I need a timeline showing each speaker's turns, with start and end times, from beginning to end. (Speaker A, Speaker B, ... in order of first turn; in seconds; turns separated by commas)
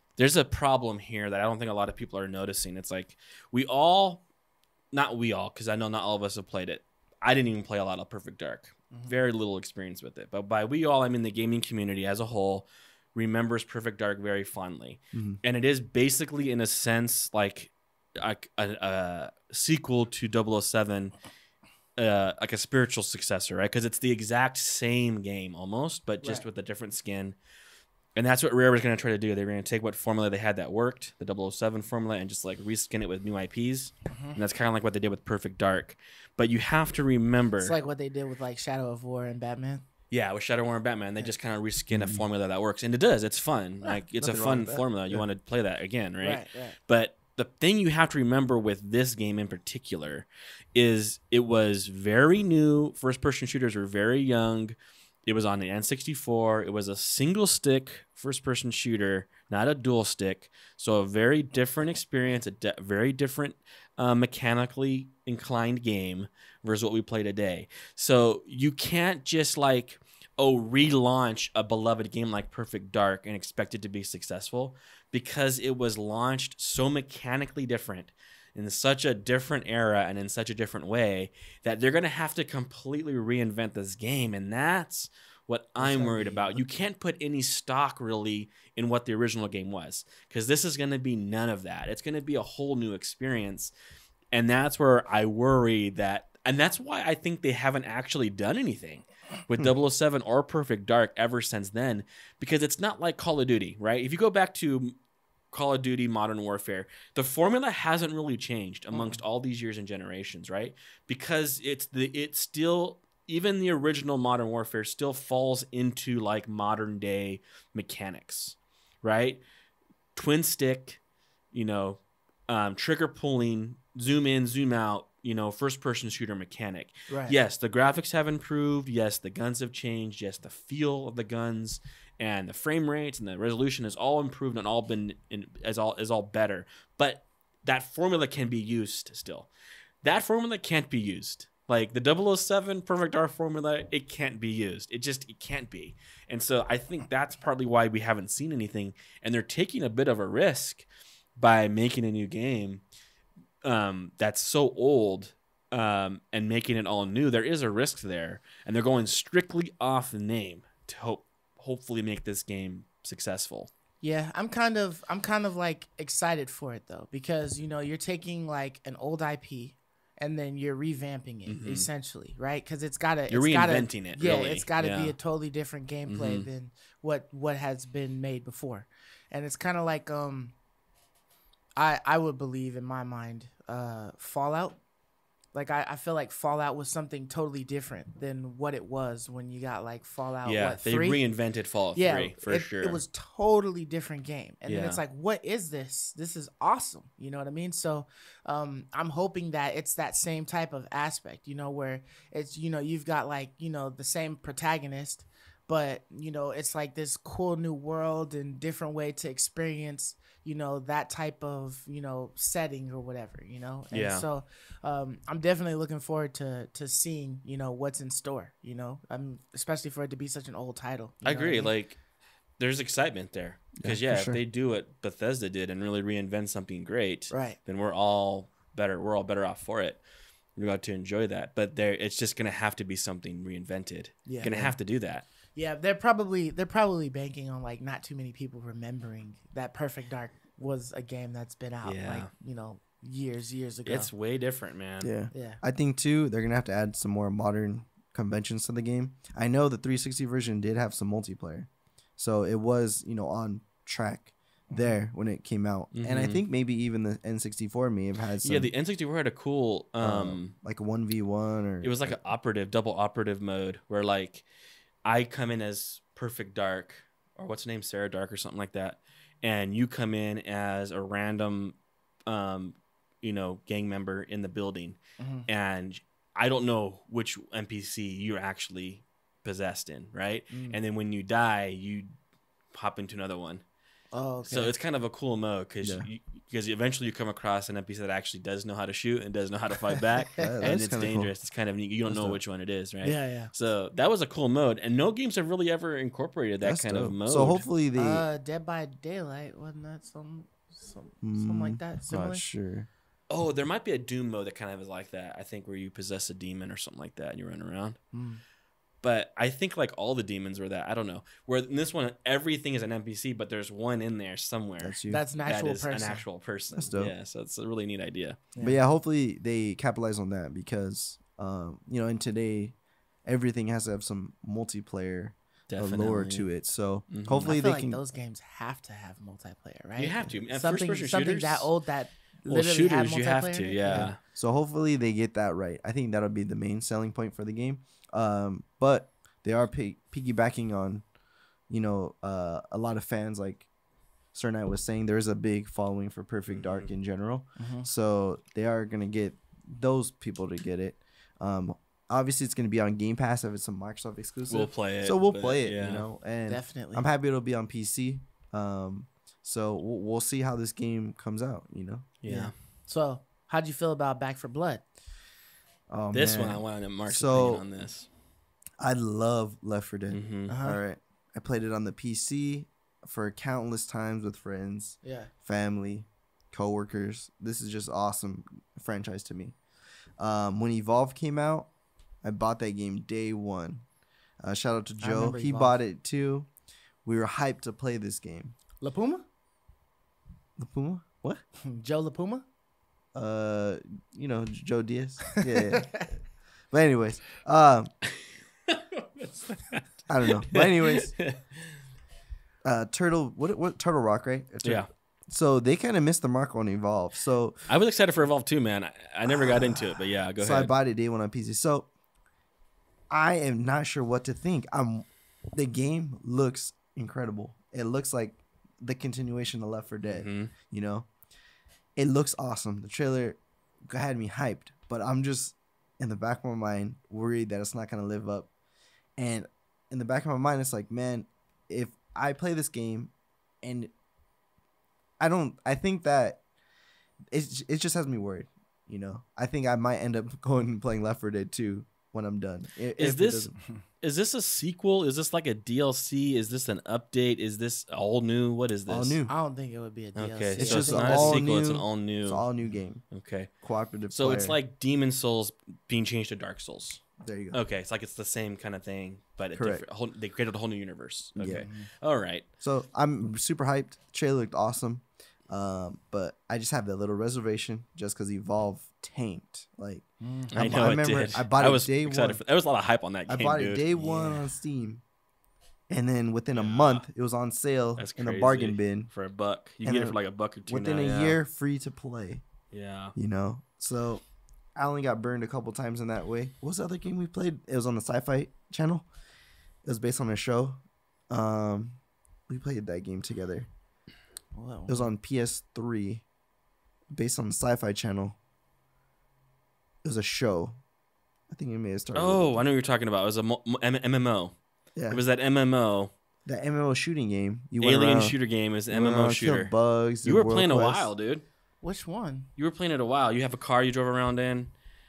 Speaker A: 0.2-4.2, Speaker A: 4.9-21.1, Speaker B: 15.1-15.4, Speaker A: 22.0-27.4, Speaker A: 28.1-37.8, Speaker C: 34.1-34.4, Speaker C: 37.6-39.9, Speaker A: 40.1-54.8, Speaker B: 41.9-42.2, Speaker B: 44.2-45.3, Speaker C: 46.2-46.8, Speaker A: 55.3-93.7, Speaker C: 85.8-86.6, Speaker B: 85.8-86.3, Speaker A: 94.3-105.0, Speaker A: 105.5-119.4, Speaker C: 108.9-109.2, Speaker A: 120.2-121.0, Speaker A: 121.5-139.5, Speaker C: 127.1-127.4, Speaker A: 140.0-150.9, Speaker A: 151.4-152.8, Speaker A: 153.6-163.7, Speaker C: 164.0-180.5, Speaker A: 171.5-171.9, Speaker A: 173.3-175.2, Speaker A: 176.1-176.5, Speaker C: 181.8-184.8, Speaker C: 185.5-191.2, Speaker A: 190.4-193.0, Speaker C: 191.9-221.7, Speaker A: 194.7-195.0, Speaker A: 213.9-214.3, Speaker A: 221.2-222.0, Speaker A: 222.6-230.0, Speaker B: 223.8-224.4, Speaker C: 227.3-227.6, Speaker A: 230.6-235.2, Speaker C: 234.3-234.8, Speaker C: 235.5-244.1, Speaker A: 241.8-242.3, Speaker A: 243.9-245.1, Speaker B: 245.0-258.7, Speaker C: 245.3-245.6, Speaker C: 254.7-254.9, Speaker A: 255.9-256.4, Speaker A: 258.4-260.5, Speaker B: 260.0-262.2, Speaker A: 261.8-264.4, Speaker A: 265.1-282.1, Speaker C: 275.2-275.5, Speaker C: 280.5-280.8, Speaker A: 282.7-283.6, Speaker C: 284.1-284.7, Speaker A: 284.5-297.7, Speaker B: 285.8-286.1, Speaker B: 290.4-291.3, Speaker C: 290.5-290.8, Speaker B: 292.1-292.4, Speaker C: 293.0-293.5, Speaker B: 296.6-298.3, Speaker C: 297.9-302.4, Speaker B: 301.2-302.9, Speaker A: 303.3-308.0, Speaker C: 308.1-308.4, Speaker A: 309.0-318.4, Speaker B: 314.8-315.2, Speaker C: 315.1-316.2, Speaker B: 316.7-317.1, Speaker B: 318.6-328.0, Speaker A: 325.7-326.5, Speaker A: 327.1-327.5, Speaker C: 327.4-334.1, Speaker A: 330.0-331.7, Speaker A: 332.5-334.2, Speaker B: 333.9-341.0, Speaker B: 341.7-343.7, Speaker B: 344.3-362.2, Speaker A: 346.5-346.9, Speaker C: 347.6-347.9, Speaker A: 354.5-356.1, Speaker C: 356.5-357.0, Speaker A: 362.2-362.5, Speaker C: 362.3-364.8, Speaker B: 365.9-367.6, Speaker A: 366.1-368.1, Speaker B: 368.8-379.6, Speaker A: 370.1-370.5, Speaker C: 370.5-370.8, Speaker C: 375.0-375.3, Speaker B: 380.2-381.7, Speaker B: 382.2-383.9, Speaker B: 384.4-386.5, Speaker C: 385.0-385.8, Speaker B: 387.1-388.6, Speaker C: 388.8-389.2, Speaker B: 390.6-391.4, Speaker C: 391.6-392.4, Speaker B: 393.1-396.2, Speaker C: 395.4-396.1, Speaker B: 396.7-397.9, Speaker A: 398.7-399.9, Speaker B: 400.1-401.1, Speaker A: 400.5-401.6, Speaker B: 402.6-407.6, Speaker A: 407.7-410.7, Speaker B: 409.2-411.9, Speaker B: 413.1-421.1, Speaker A: 420.1-420.5, Speaker B: 422.0-428.5, Speaker B: 429.2-433.1, Speaker B: 433.6-433.9, Speaker B: 435.2-436.4, Speaker B: 437.3-443.6, Speaker A: 443.0-449.2, Speaker B: 448.9-449.3, Speaker C: 449.3-451.4, Speaker A: 450.2-452.5, Speaker B: 450.6-453.1, Speaker A: 453.1-453.5, Speaker B: 453.6-454.6, Speaker A: 454.1-462.4, Speaker B: 457.2-457.6, Speaker B: 459.6-459.9, Speaker B: 461.4-461.7, Speaker C: 461.6-461.9, Speaker B: 462.6-472.4, Speaker C: 470.2-470.7, Speaker A: 470.5-474.4, Speaker B: 473.3-475.0, Speaker B: 475.9-479.1, Speaker A: 476.5-477.1, Speaker A: 478.0-481.4, Speaker B: 479.8-482.4, Speaker A: 482.7-483.1, Speaker B: 483.1-484.2, Speaker B: 484.8-489.1, Speaker B: 489.8-493.7, Speaker C: 494.5-495.1, Speaker B: 494.9-496.2, Speaker B: 497.1-498.4, Speaker B: 500.0-500.8, Speaker B: 501.5-502.6, Speaker A: 502.1-504.6, Speaker B: 505.0-505.2, Speaker A: 505.1-506.1, Speaker B: 506.5-508.4, Speaker A: 507.8-509.7, Speaker B: 508.9-511.1, Speaker A: 510.2-511.4, Speaker C: 511.8-512.5, Speaker A: 512.6-514.7